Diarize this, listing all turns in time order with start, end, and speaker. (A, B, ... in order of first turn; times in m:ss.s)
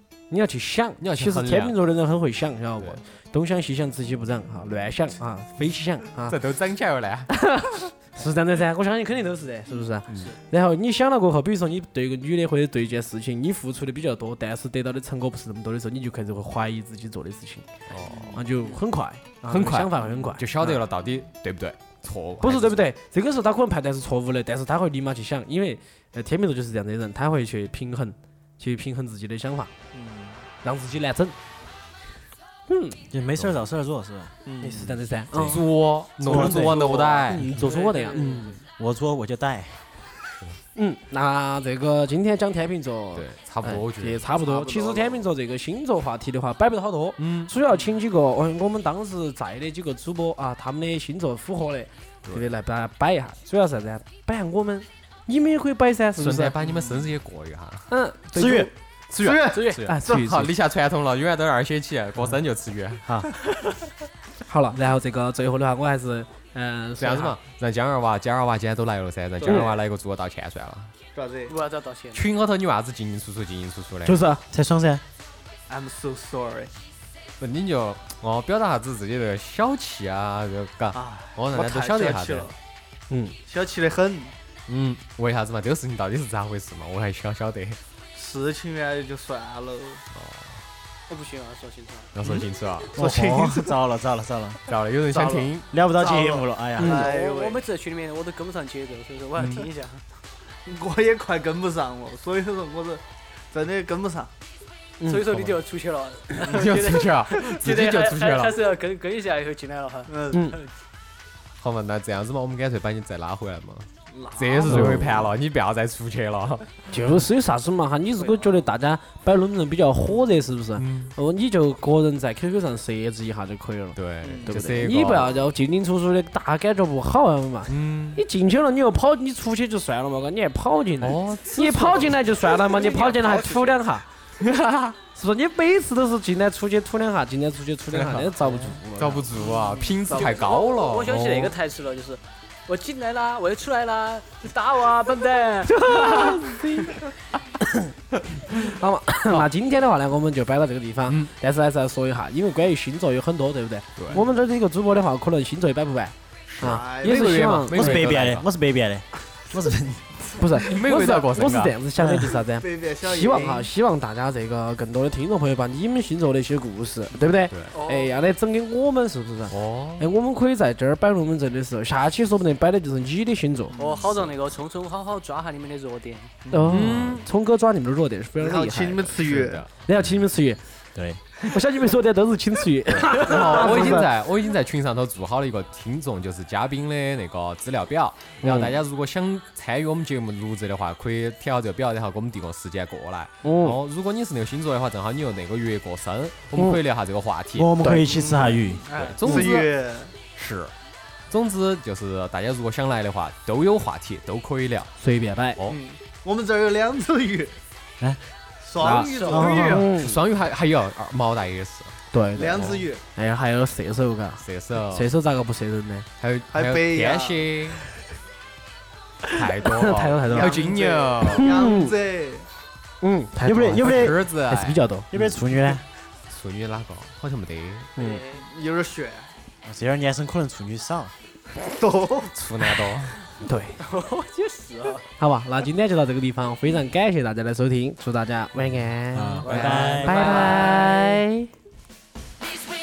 0:00.3-0:06.4 A
0:01.0-0:01.8 B
0:06.3-0:07.3 B
0:07.3-0:17.7 A
0:10.1-0:10.3 B
0:17.9-0:18.4 B
0:18.0-0:18.5 C
0:18.3-0:20.4 A
0:19.5-0:22.8 B
0:20.1-0:20.8 C
0:22.4-0:29.7 A
0:29.9-0:30.5 C
0:30.6-0:31.4 A
0:32.7-0:33.0 A
0:33.1-0:35.6 D
0:34.5-0:34.9 C
0:34.7-0:35.6 A
0:35.3-0:37.5 B
0:36.2-0:36.8 D
0:36.3-0:37.3 C
0:36.8-0:38.5 E
0:37.3-0:38.6 A
0:37.4-0:37.7 D
0:38.2-0:38.5 B
0:38.8-0:39.9 D
0:40.8-0:56.6 A
0:43.1-0:44.2 B
0:44.4-0:45.2 C
0:47.2-0:47.6 B
0:56.2-0:57.9 B
0:56.7-0:57.1 C
0:57.9-0:58.7 A
0:58.3-0:58.7 D
0:59.1-1:03.1 B
0:59.2-1:00.3 C
0:59.5-0:59.8 E
0:59.8-1:00.5 A
1:03.0-1:03.3 D
1:04.5-1:07.4 A
1:07.0-1:10.9 B
1:09.4-1:09.8 C
1:09.4-1:09.7 A
1:11.1-1:11.6 C
1:11.5-1:12.3 E
1:12.1-1:14.2 B
1:14.0-1:14.4 A
1:14.5-1:15.0 D
1:15.7-1:16.7 C
1:17.4-1:22.5 B
1:20.9-1:22.6 C
1:23.1-1:23.4 A
1:23.5-1:24.4 C
1:24.7-1:27.8 B
1:28.2-1:30.0 C
1:30.1-1:30.6 B
1:31.1-1:32.1 E
1:32.2-1:33.6 B
1:32.9-1:34.6 D
1:34.7-1:35.7 B
1:35.1-1:37.6 C
1:35.7-1:37.1 D
1:36.8-1:37.0 A
1:36.8-1:40.0 E
1:39.4-1:39.7 B
1:40.7-1:44.3 C
1:45.0-1:45.3 A
1:45.1-1:50.7 E
1:46.4-1:48.6 B
1:50.1-1:50.6 C
1:50.3-1:50.6 A
1:51.6-1:56.7 B
1:54.1-1:55.0 E
1:54.7-1:55.0 A
1:56.9-2:14.1 A
2:00.8-2:01.1 B
2:04.0-2:05.4 B
2:04.2-2:04.6 C
2:07.7-2:08.2 B
2:11.0-2:12.3 B
2:12.4-2:13.8 E
2:14.4-2:15.0 B
2:15.1-2:19.3 A
2:17.9-2:21.6 B
2:19.5-2:20.0 C
2:20.1-2:26.3 E
2:25.7-2:27.0 A
2:28.5-2:38.0 A
2:31.1-2:31.3 B
2:34.0-2:34.2 B
2:36.5-2:38.5 B
2:36.6-2:37.5 C
2:37.7-2:40.3 D
2:40.4-2:53.8 A
2:40.6-2:41.8 B
2:42.0-2:42.3 D
2:42.4-2:43.7 C
2:47.5-2:47.8 B
2:47.7-2:48.2 E
2:49.5-2:50.1 B
2:53.7-2:54.3 C
2:53.8-2:56.4 E
2:56.5-2:56.8 C
2:56.5-2:59.1 A
2:56.7-2:57.2 B
2:56.8-2:57.2 D
2:58.4-2:59.7 C
2:59.2-3:00.2 B
2:59.8-3:00.6 A
3:01.0-3:01.2 D
3:01.4-3:04.1 A
3:02.9-3:17.8 B
3:08.4-3:08.8 A
3:13.4-3:13.8 A
3:17.5-3:18.9 D
3:17.8-3:18.3 A
3:18.3-3:20.2 C
3:18.9-3:19.7 B
3:19.2-3:19.5 A
3:20.2-3:20.7 B
3:21.3-3:24.9 B
3:25.0-3:25.6 A
3:25.7-3:27.6 C
3:28.6-3:29.8 C
3:28.8-3:29.5 E
3:28.9-3:30.2 A
3:29.0-3:32.8 B
3:29.2-3:29.9 D
3:32.1-3:36.1 A
3:32.4-3:33.0 C
3:34.4-3:35.1 B
3:36.2-3:37.8 B
3:36.5-3:37.5 C
3:39.3-3:40.7 A
3:39.3-3:41.6 B
3:40.2-3:42.5 C
3:41.3-3:41.9 A
3:43.0-3:45.1 A
3:43.4-3:44.2 D
3:43.7-3:45.2 B
3:45.1-3:45.8 D
3:46.3-3:47.9 B
3:48.0-3:48.4 E
3:48.3-3:49.3 C
3:49.6-3:51.1 D
3:51.6-3:52.7 C
3:52.3-3:53.2 B
3:53.4-3:53.8 A
3:53.8-3:55.1 E
3:55.2-4:01.5 A
3:59.1-4:00.4 D
3:59.4-4:01.2 E
3:59.5-4:00.0 B